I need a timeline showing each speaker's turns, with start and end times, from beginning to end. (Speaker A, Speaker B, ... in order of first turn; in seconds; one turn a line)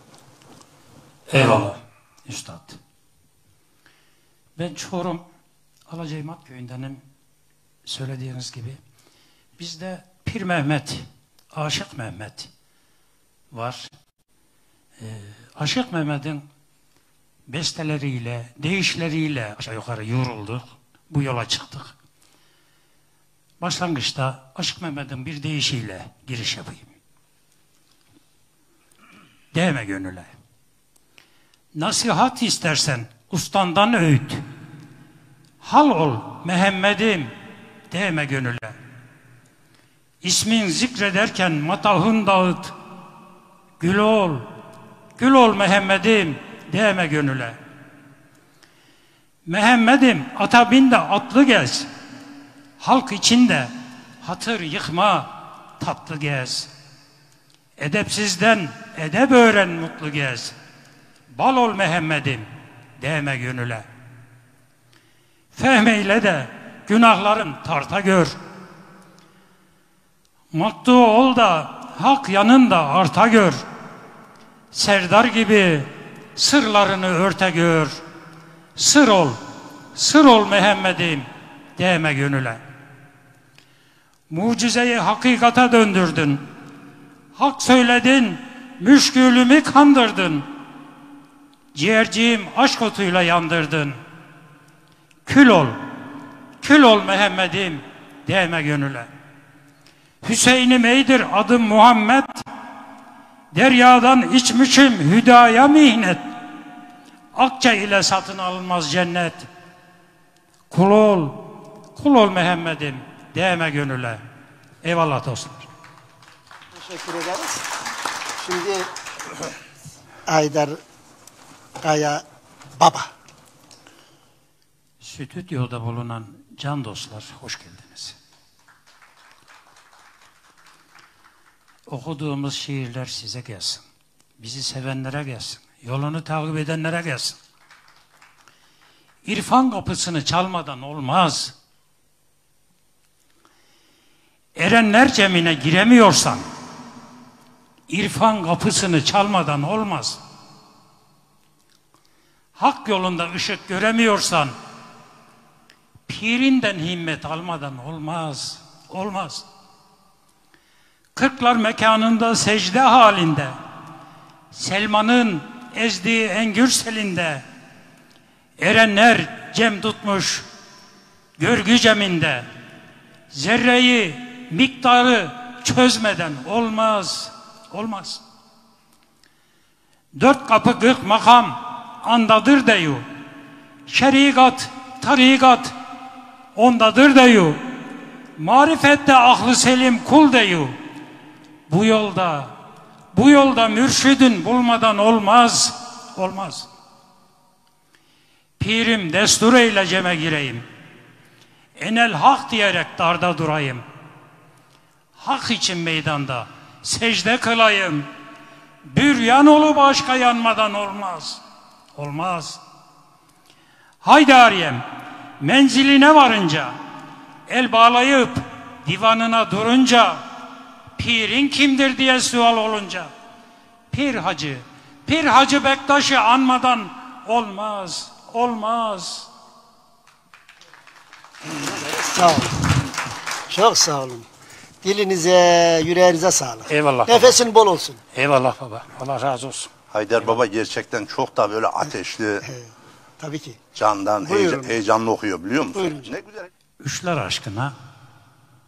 Speaker A: 1.3-2.8
Speaker A: 4.6-5.2
Speaker A: 5.9-7.0
Speaker A: 7.8-8.8
Speaker A: 9.6-12.5
Speaker A: 13.5-13.9
Speaker A: 15.0-16.4
Speaker A: 17.5-21.9
Speaker A: 23.6-26.9
Speaker A: 29.5-30.3
Speaker A: 31.7-34.4
Speaker A: 35.6-37.3
Speaker A: 37.9-38.8
Speaker A: 40.2-42.7
Speaker A: 43.8-44.4
Speaker A: 45.2-47.6
Speaker A: 49.5-51.9
Speaker A: 52.8-56.7
Speaker A: 57.8-60.5
Speaker A: 61.3-62.5
Speaker A: 63.0-63.9
Speaker A: 65.5-68.3
Speaker A: 70.5-73.6
Speaker A: 74.7-78.0
Speaker A: 78.8-79.4
Speaker A: 79.9-82.6
Speaker A: 84.3-86.5
Speaker A: 87.3-90.5
Speaker A: 91.7-94.0
Speaker A: 95.2-95.8
Speaker A: 96.6-99.1
Speaker A: 100.2-102.5
Speaker A: 103.5-106.2
Speaker A: 107.3-109.5
Speaker A: 110.7-114.2
Speaker A: 114.8-115.7
Speaker B: 116.7-117.6
Speaker B: 118.4-118.9
Speaker B: 120.3-120.8
Speaker B: 121.8-122.2
Speaker B: 122.8-123.1
Speaker A: 125.0-128.2
Speaker A: 131.9-133.8
Speaker A: 134.4-137.4
Speaker A: 139.2-141.5
Speaker A: 144.6-146.4
Speaker A: 147.9-150.2
Speaker A: 152.6-154.6
Speaker A: 156.1-159.4
Speaker A: 161.2-163.6
Speaker A: 164.5-167.4
Speaker A: 168.6-170.4
Speaker A: 171.4-172.5
Speaker A: 173.3-178.2
Speaker A: 180.1-183.0
Speaker A: 183.9-185.7
Speaker A: 186.5-187.6
Speaker A: 188.4-190.8
Speaker A: 191.7-192.5
Speaker A: 193.1-196.7
Speaker A: 198.6-200.7
Speaker A: 201.8-203.8
Speaker A: 205.2-208.1
Speaker A: 208.8-211.4
Speaker A: 211.9-212.6
Speaker A: 214.0-214.8
Speaker A: 215.4-216.8
Speaker A: 217.5-220.2
Speaker A: 221.0-223.1
Speaker A: 223.9-229.3
Speaker B: 231.8-232.7
Speaker B: 233.5-234.2
Speaker B: 234.8-238.0
Speaker A: 236.7-237.4
Speaker A: 238.1-239.7
Speaker C: 239.9-242.4
Speaker B: 242.4-242.7
Speaker B: 243.2-243.6
Speaker C: 243.7-246.4
Speaker B: 244.2-244.7
Speaker B: 245.7-246.1
Speaker A: 246.8-247.7